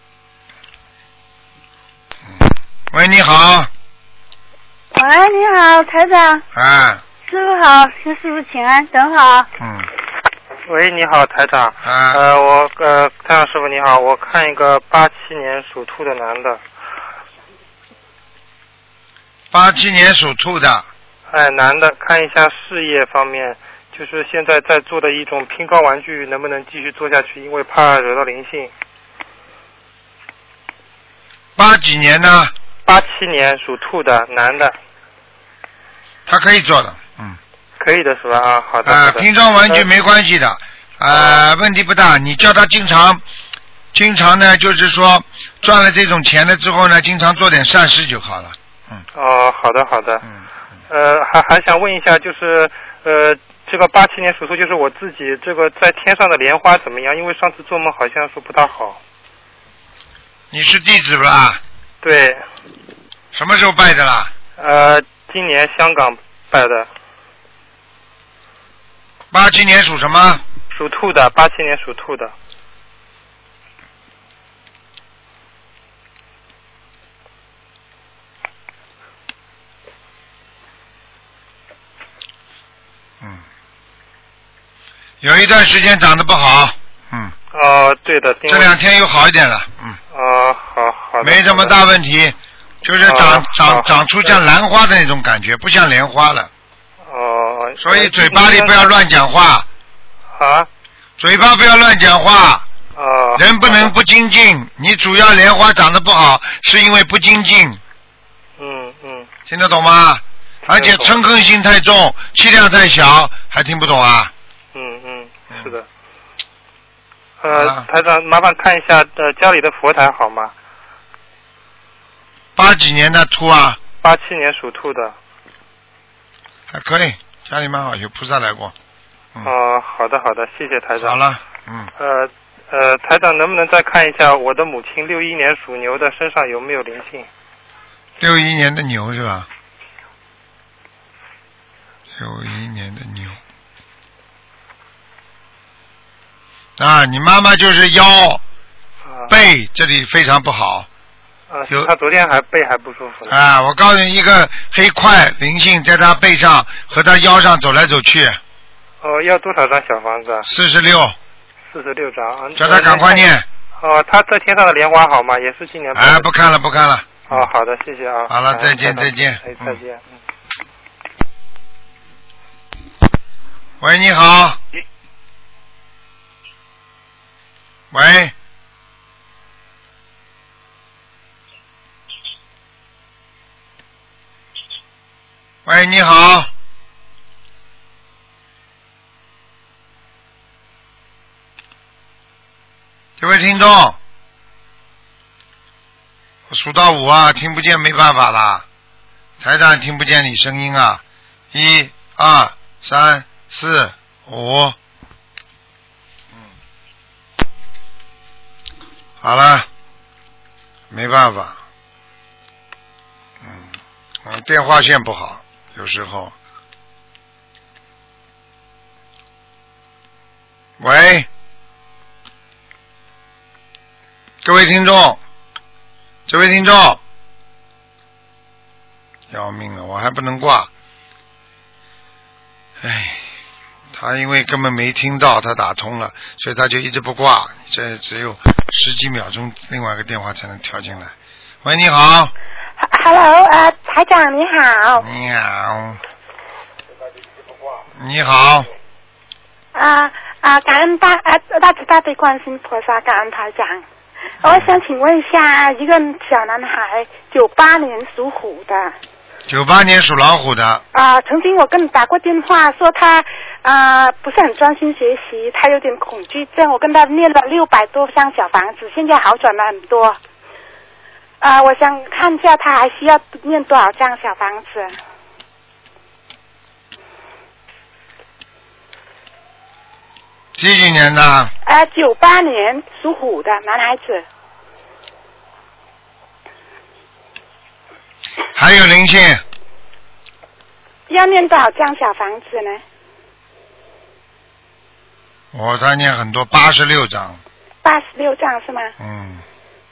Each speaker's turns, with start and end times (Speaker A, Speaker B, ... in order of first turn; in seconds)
Speaker A: 2.3-3.7, 6.5-7.0, 9.6-9.9, 11.8-12.2, 19.5-20.9, 31.6-32.5, 36.3-37.4, 38.9-43.2, 43.9-49.0, 60.5-61.6, 63.3-64.3, 69.3-70.4, 85.2-87.3, 88.5-90.0, 91.2-96.5, 97.8-99.7, 101.2-102.6, 103.3-107.8, 109.5-114.3, 117.5-117.9, 122.5-123.8, 126.7-128.7, 131.0-131.9, 138.2-139.5, 142.2-143.4, 146.8-148.4, 149.3-150.9, 153.3-158.4, 160.4-161.2, 162.6-163.4, 165.9-167.5, 168.3-169.8, 173.8-174.6, 177.9-178.3, 185.7-186.5, 193.2-194.0, 196.5-198.6, 199.4-204.8, 209.2-209.7, 210.9-211.6, 213.4-213.7, 214.2-216.3, 220.8-221.3, 224.4-225.2, 226.3-227.0, 229.3-230.7, 232.8-233.2, 233.9-241.1, 241.6-242.3, 245.0-246.0, 247.9-248.7, 254.4-254.7, 259.5-260.8, 280.6-281.5, 288.5-289.4, 295.5-297.4, 299.0-299.4
Speaker B: 4.9-6.4, 7.3-9.5
Speaker C: 10.7-16.6, 21.3-28.7, 32.9-34.7, 37.8-39.9, 41.1-41.4, 49.1-50.2, 50.9-59.0, 62.0-62.4, 64.6-66.9, 70.7-72.3, 87.5-88.8, 90.1-91.8, 93.0-94.3, 97.1-98.9, 100.3-100.7, 103.0-103.9, 108.6-109.3, 110.7-111.1, 114.7-115.8, 117.4-120.5, 124.0-125.1, 129.4-131.2, 132.0-137.3, 151.5-153.3, 159.0-160.4, 161.7-163.3, 163.8-166.3, 167.3-170.0
Speaker D: 242.8-245.0, 249.7-253.8, 254.4-258.9, 260.9-270.2, 271.4-274.9, 281.6-284.2, 291.1-292.8, 297.8-298.9